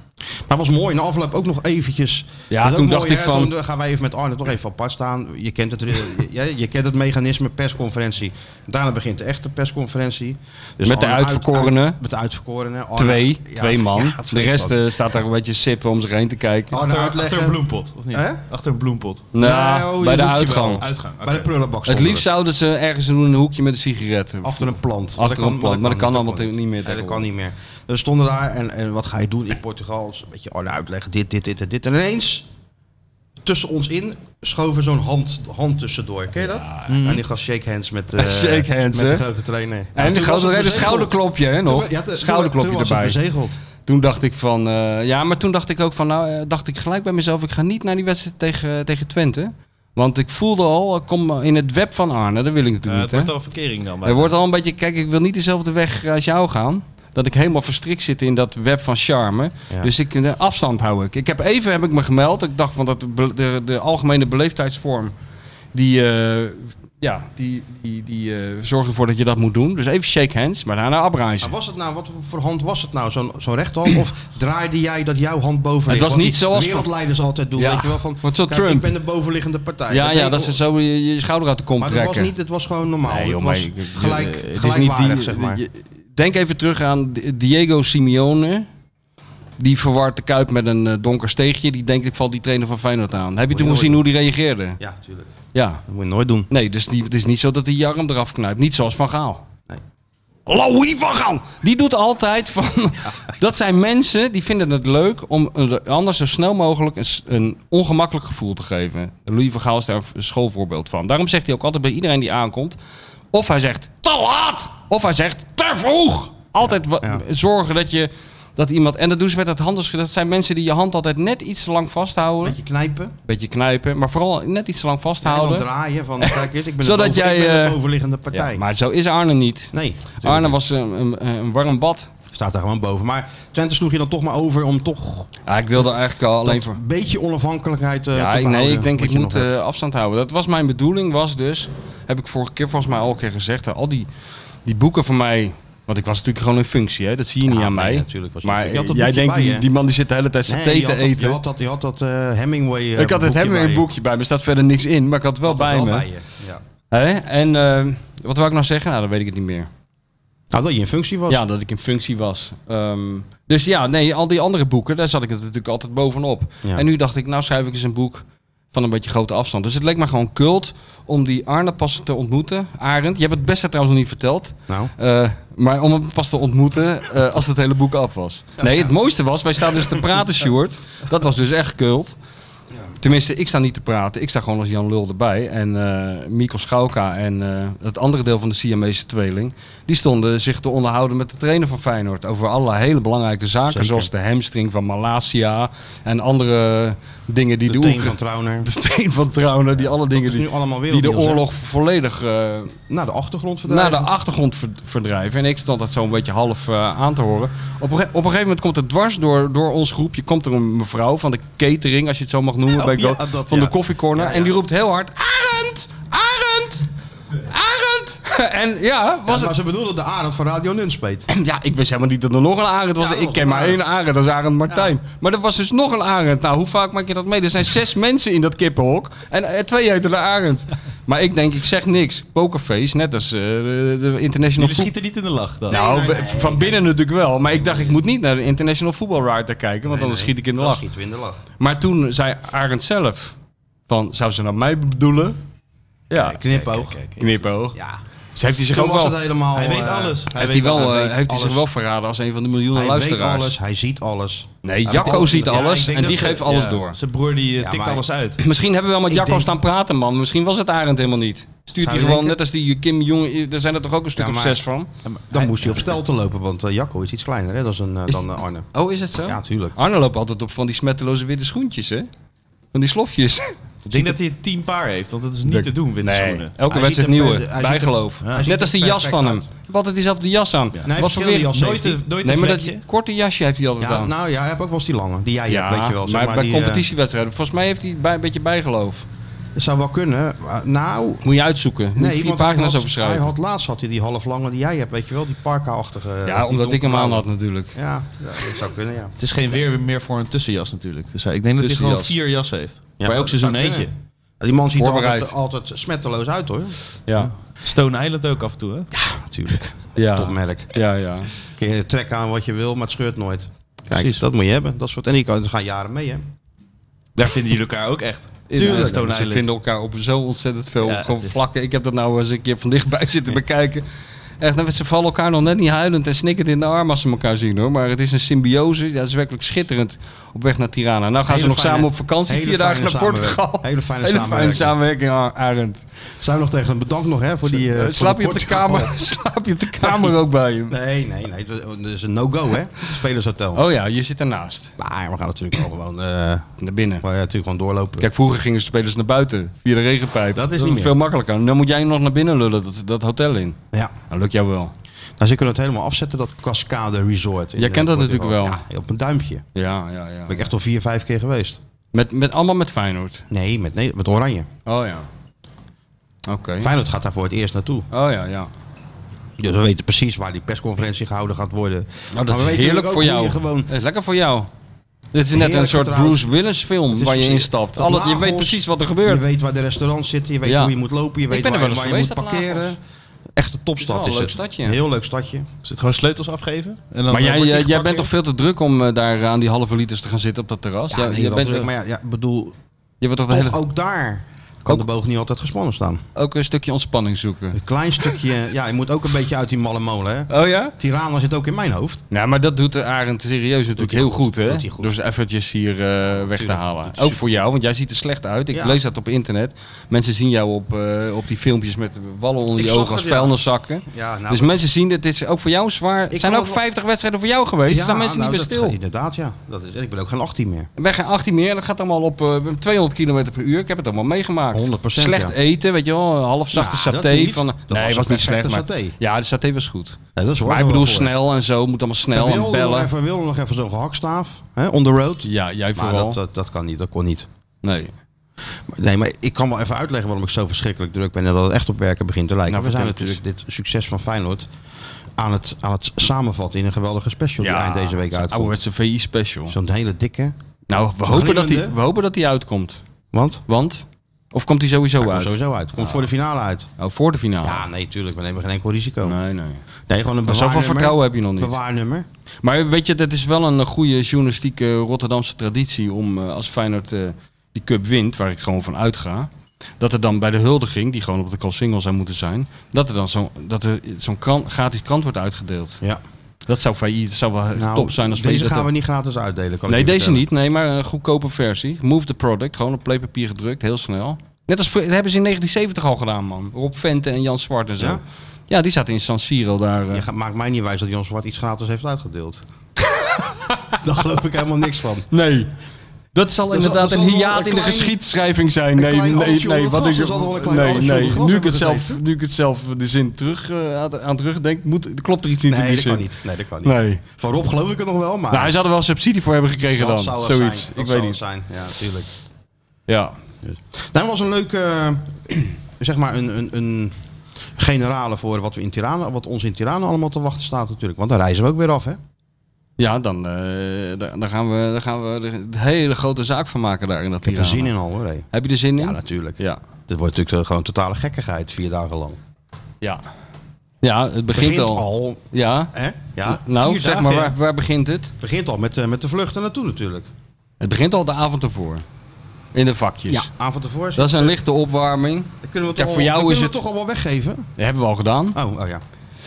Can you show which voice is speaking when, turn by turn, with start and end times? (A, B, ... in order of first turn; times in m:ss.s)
0:00.5-0:15.1 A
0:02.5-0:03.5 B
0:10.8-0:12.0 B
0:13.0-0:16.8 B
0:16.7-0:17.6 A
0:16.7-0:19.3 C
0:18.1-0:18.4 A
0:19.3-0:20.8 B
0:19.4-0:22.3 A
0:20.8-0:21.5 C
0:21.9-0:27.2 B
0:24.4-0:32.4 A
0:33.4-0:43.6 A
0:36.4-0:37.0 B
0:36.9-0:37.2 C
0:38.1-0:39.2 B
0:39.9-0:43.2 B
0:43.8-0:53.3 B
0:52.9-0:54.3 C
0:54.0-1:05.1 B
1:05.7-1:11.5 B
1:11.4-1:20.6 A
1:15.9-1:16.9 B
1:17.6-1:18.9 B
1:19.9-1:22.3 B
1:21.8-1:25.6 A
1:23.0-1:28.7 B
1:29.6-1:34.8 B
1:33.5-1:34.0 A
1:34.8-1:35.3 A
1:35.5-1:35.8 B
1:35.8-1:36.5 A
1:36.5-1:39.4 B
1:40.4-1:52.8 B
1:53.3-2:02.6 B
1:56.6-1:57.2 A
2:02.4-2:03.1 A
2:03.2-2:05.7 B
2:05.2-2:08.6 A
2:06.2-2:07.8 B
2:08.3-2:12.1 B
2:09.7-2:10.6 A
2:12.3-2:15.3 A
2:15.4-2:16.8 B
2:16.4-2:19.5 A
2:18.1-2:24.1 B
2:24.6-2:31.4 B
2:27.4-2:29.7 A
2:30.5-2:33.9 A
2:33.0-2:36.1 B
2:35.4-2:36.6 A
2:36.9-2:39.7 B
2:40.5-2:41.4 A
2:41.3-3:02.2 B
3:03.0-3:22.7 B
3:13.7-3:14.1 A
3:17.7-3:18.7 A
3:19.8-3:21.4 A
3:22.9-3:24.1 A
3:23.7-3:36.9 B
3:32.9-3:33.4 C
3:33.3-3:34.6 A
3:37.4-3:39.5 B
3:39.2-3:41.3 A
3:41.3-3:54.9 B
3:43.0-3:43.8 A
3:54.6-3:55.8 C
3:55.7-3:56.8 A
3:55.7-4:00.8 B
3:57.5-3:58.0 A
3:59.9-4:01.4 A
4:01.6-4:03.3 B
4:03.9-4:05.4 B
4:06.1-4:06.4 B
4:06.1-4:07.4 C
4:06.2-4:07.0 A
4:07.2-4:07.8 B
4:07.7-4:08.0 A
4:08.4-4:09.2 B
4:08.6-4:11.6 A
4:09.5-4:11.1 C
4:10.3-4:13.5 B
4:12.7-4:15.8 A
4:14.6-4:17.0 B
4:14.9-4:18.4 C
4:17.6-4:18.0 A
4:18.4-4:24.9 B
4:19.1-4:19.5 A
4:21.8-4:22.4 A
4:24.2-4:24.6 A
4:25.0-4:25.8 C
4:25.3-4:28.7 A
4:28.1-4:32.1 B
4:29.2-4:29.8 A
4:32.7-4:33.5 B
4:33.8-4:34.2 A
4:33.9-4:36.5 C
4:35.4-4:41.5 B
4:36.7-4:39.5 A
4:40.9-4:42.0 A
4:41.4-4:42.8 C
4:42.2-4:44.1 B
4:43.8-4:46.8 A
4:45.5-4:49.1 B
4:49.6-4:51.2 A
4:51.2-4:53.3 B
4:51.9-4:59.1 A
4:56.2-4:57.8 B
4:59.2-5:03.9 C
5:01.6-5:02.1 B
5:03.0-5:06.8 A
5:04.8-5:05.3 B
5:07.1-5:07.3 B
5:07.2-5:08.9 C
5:08.9-5:10.8 A
5:10.0-5:11.3 B
5:11.4-5:16.3 A
5:13.9-5:14.2 C
5:17.2-5:19.5 C
5:18.5-5:19.2 A
5:18.6-5:23.8 B
5:20.8-5:21.4 C
5:24.4-5:35.8 B
5:31.3-5:34.8 A
5:36.2-5:38.9 A
5:37.5-5:40.7 B
5:39.8-5:40.2 A
5:40.7-5:43.6 A
5:43.5-5:44.7 B
5:44.8-5:46.5 A
5:46.6-5:47.0 B
5:47.0-5:48.1 A
5:48.0-5:53.6 B
5:50.4-5:50.9 A
5:54.1-5:54.7 B
5:55.2-5:59.4 A
5:57.6-5:58.6 B
5:59.5-6:00.5 B
6:00.3-6:01.6 A
6:01.9-6:03.2 B
6:03.3-6:04.5 A
6:04.6-6:05.1 B
6:06.2-6:06.7 B
6:06.6-6:07.9 A
6:07.9-6:08.5 B
6:09.4-6:13.7 A
6:12.1-6:14.5 B
6:15.1-6:19.2 B
6:15.3-6:16.2 A
6:16.9-6:22.8 A
6:20.4-6:20.7 B
6:21.3-6:22.8 B
6:23.3-6:25.5 A
6:23.8-6:24.8 B
6:25.6-6:28.1 C
6:27.1-6:31.7 B
6:30.9-6:32.6 A
6:33.0-6:33.6 B
6:33.3-6:36.0 A
6:36.2-6:38.2 B
6:37.5-6:42.0 A
6:40.3-6:40.7 B
6:42.1-6:58.8 B
6:43.8-6:44.9 A
6:46.1-6:47.2 A
6:48.5-6:48.8 A
6:52.6-6:54.6 A
6:56.1-6:56.6 A
6:57.7-7:00.7 A
7:00.8-7:12.9 B
7:04.5-7:05.4 A
7:06.5-7:09.0 A
7:10.2-7:11.1 A
7:12.1-7:17.3 A
7:15.2-7:16.2 B
7:17.6-7:17.9 B
7:18.7-7:24.5 A
7:22.5-7:23.2 B
7:25.2-7:28.6 A
7:27.4-7:29.5 B
7:29.5-7:30.3 A
7:30.7-7:32.8 B
7:31.0-7:31.7 A
7:33.1-7:33.4 A
7:33.5-7:36.0 B
7:35.0-7:36.7 A
7:36.8-7:37.6 B
7:37.4-7:39.2 A
7:39.0-7:39.6 B
7:39.9-7:42.0 A
7:40.2-7:41.6 B
7:42.4-7:55.8 B
7:56.5-7:58.7 B
7:57.5-8:00.2 A
7:59.7-8:10.1 B
8:09.9-8:12.4 A
8:12.8-8:13.7 B
8:13.7-8:15.1 A
8:15.1-8:15.5 B
8:16.1-8:26.0 B
8:16.5-8:18.0 A
8:18.7-8:22.0 A
8:25.5-8:28.5 A
8:26.6-8:27.0 B
8:28.3-8:31.2 B
8:29.8-8:32.1 A
8:32.9-8:33.2 B
8:33.4-8:36.9 A
8:37.6-8:42.0 A
8:42.8-8:47.7 B
8:47.2-8:52.2 A
8:48.3-8:49.6 B
8:53.8-8:55.7 B
8:54.3-8:57.4 A
8:56.2-8:58.1 B
8:58.2-9:00.1 A
9:00.6-9:01.8 B
9:02.5-9:03.3 B
9:03.1-9:04.4 A
9:04.0-9:06.6 B
9:05.4-9:07.5 A
9:07.6-9:08.4 B
9:08.3-9:08.8 A